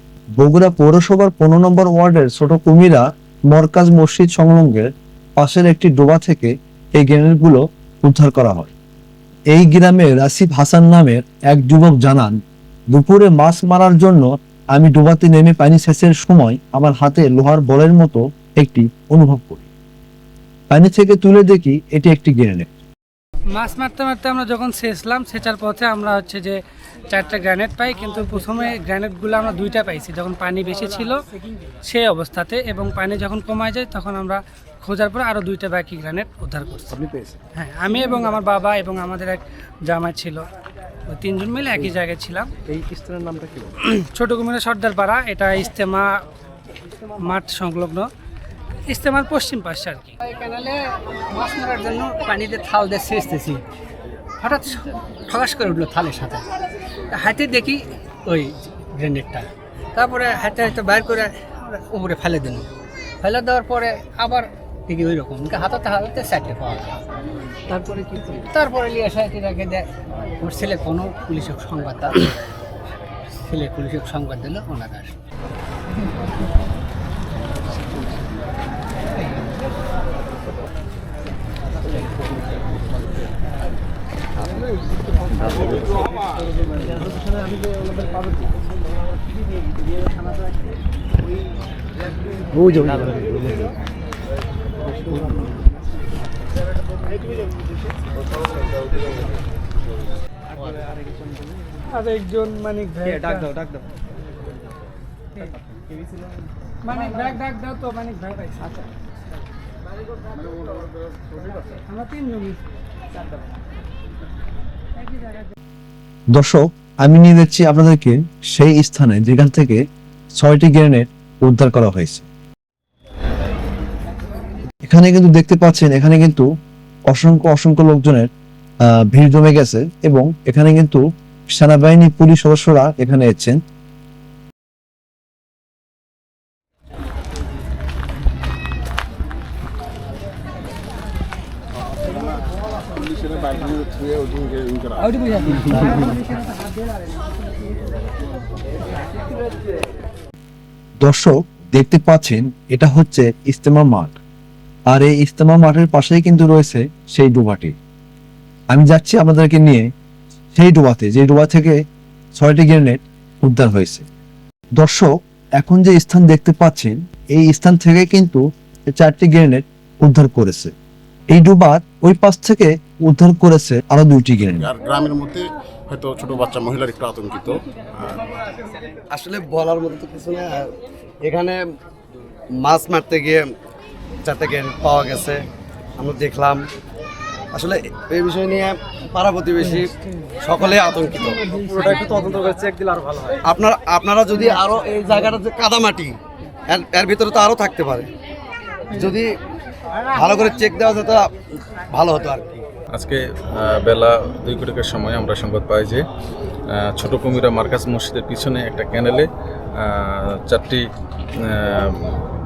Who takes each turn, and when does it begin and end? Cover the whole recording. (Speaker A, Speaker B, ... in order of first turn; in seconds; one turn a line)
Speaker A: 0.4-4.9
Speaker A: 5.4-8.7
Speaker A: 9.5-12.3
Speaker A: 12.9-19.7
Speaker A: 20.7-22.7
Speaker B: 23.5-26.6
Speaker B: 27.1-31.2
Speaker B: 31.9-37.0
Speaker B: 37.5-40.5
Speaker B: 41.1-42.5
Speaker C: 42.7-43.7
Speaker B: 43.8-46.2
Speaker B: 47.2-48.1
Speaker B: 48.9-50.2
Speaker D: 50.2-50.8
Speaker D: 51.3-53.6
Speaker D: 54.4-56.5
Speaker D: 57.1-62.7
Speaker D: 63.2-67.0
Speaker D: 67.7-69.9
Speaker D: 70.4-72.4
Speaker D: 73.4-75.2
Speaker C: 93.0-93.3
Speaker C: 100.8-101.5
Speaker B: 101.9-103.6
Speaker C: 103.2-103.8
Speaker B: 106.8-108.7
Speaker B: 111.9-112.6
Speaker B: 115.0-115.5
Speaker A: 116.3-119.8
Speaker A: 120.4-122.3
Speaker A: 124.9-126.5
Speaker A: 127.1-128.3
Speaker A: 129.1-131.0
Speaker A: 131.5-133.6
Speaker E: 143.1-146.0
Speaker A: 151.0-154.2
Speaker A: 154.9-157.8
Speaker A: 158.7-159.9
Speaker A: 160.6-161.8
Speaker A: 162.4-164.1
Speaker A: 164.8-165.1
Speaker A: 165.6-170.7
Speaker A: 171.3-174.7
Speaker E: 174.6-178.3
Speaker F: 179.1-180.7
Speaker F: 181.2-181.6
Speaker F: 182.6-183.4
Speaker F: 184.2-185.4
Speaker F: 186.0-186.6
Speaker F: 187.5-189.9
Speaker F: 190.4-192.8
Speaker C: 192.4-192.8
Speaker F: 193.3-196.2
Speaker F: 196.7-198.1
Speaker F: 198.9-199.3
Speaker F: 200.1-201.3
Speaker F: 201.9-202.7
Speaker G: 202.9-206.0
Speaker G: 206.7-209.3
Speaker G: 209.8-210.8
Speaker G: 211.4-212.2